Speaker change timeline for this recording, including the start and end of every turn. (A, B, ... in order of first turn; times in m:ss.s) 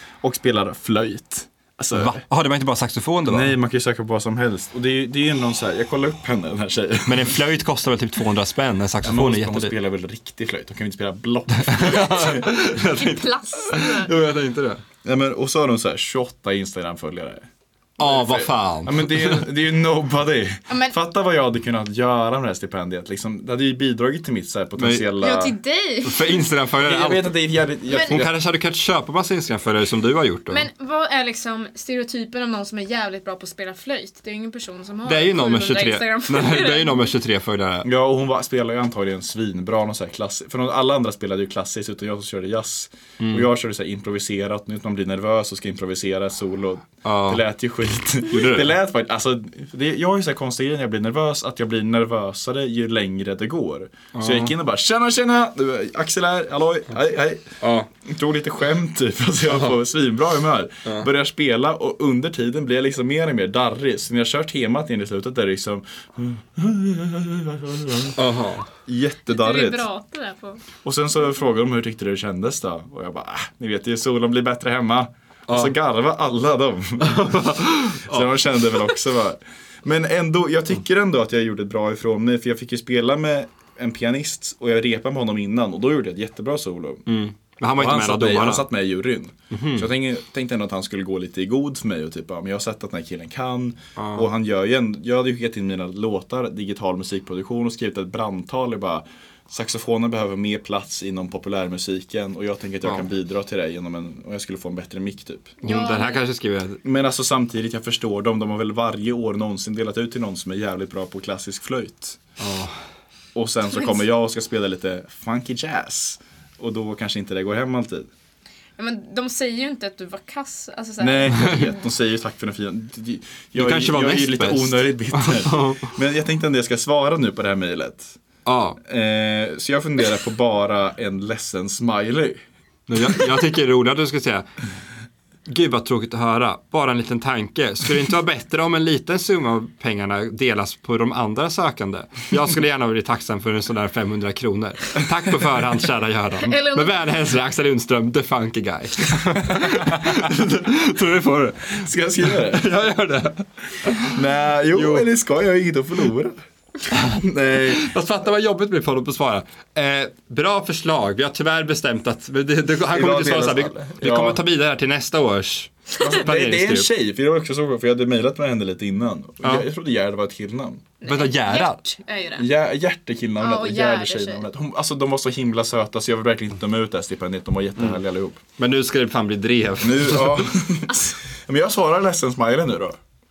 0:00.2-0:02.2 A
0:01.9-0:03.5 B
0:03.2-0:07.3 A
0:07.0-0:09.7 B
0:09.0-0:12.5 A
0:11.6-0:14.8 B
0:12.7-0:14.1 C
0:15.0-0:17.5 A
0:18.0-0:19.4 B
0:18.0-0:25.5 A
0:20.7-0:21.0 C
0:24.8-0:25.1 B
0:25.2-0:26.4 C
0:26.0-0:27.4 B
0:26.8-0:28.3 A
0:27.9-0:28.2 C
0:28.0-0:30.6 B
0:30.5-0:37.1 C
0:35.0-0:37.9 B
0:37.8-1:08.2 A
0:43.2-0:43.5 B
0:47.0-0:47.4 B
0:48.3-0:48.7 B
0:54.1-0:54.5 B
0:57.6-0:57.9 B
1:08.2-1:08.7 B
1:08.8-1:09.8 A
1:09.3-1:10.6 C
1:10.8-1:27.1 A
1:15.5-1:15.7 B
1:17.0-1:18.3 B
1:27.1-1:28.7 B
1:27.7-1:45.5 A
1:29.5-1:29.9 B
1:34.0-1:34.3 B
1:45.6-1:46.2 C
1:45.6-1:46.8 B
1:46.8-1:52.2 A
1:52.4-1:52.8 B
1:53.3-1:58.1 A
1:53.7-1:54.0 C
1:58.8-2:01.7 C
2:01.0-2:08.2 A
2:03.5-2:05.9 B
2:08.4-2:08.8 B
2:08.8-2:12.4 A
2:12.9-2:14.5 B
2:15.5-2:34.2 B
2:26.4-2:27.1 C
2:31.8-2:32.7 A
2:34.1-2:36.4 A
2:34.7-2:35.1 B
2:37.1-2:37.9 A
2:37.7-2:46.9 B
2:42.9-2:44.4 A
2:46.0-2:50.8 A
2:51.0-2:52.5 C
2:51.0-2:51.8 B
2:52.4-2:58.4 A
2:53.4-2:54.5 C
2:58.6-3:00.5 B
2:59.8-3:03.0 A
3:00.9-3:01.2 C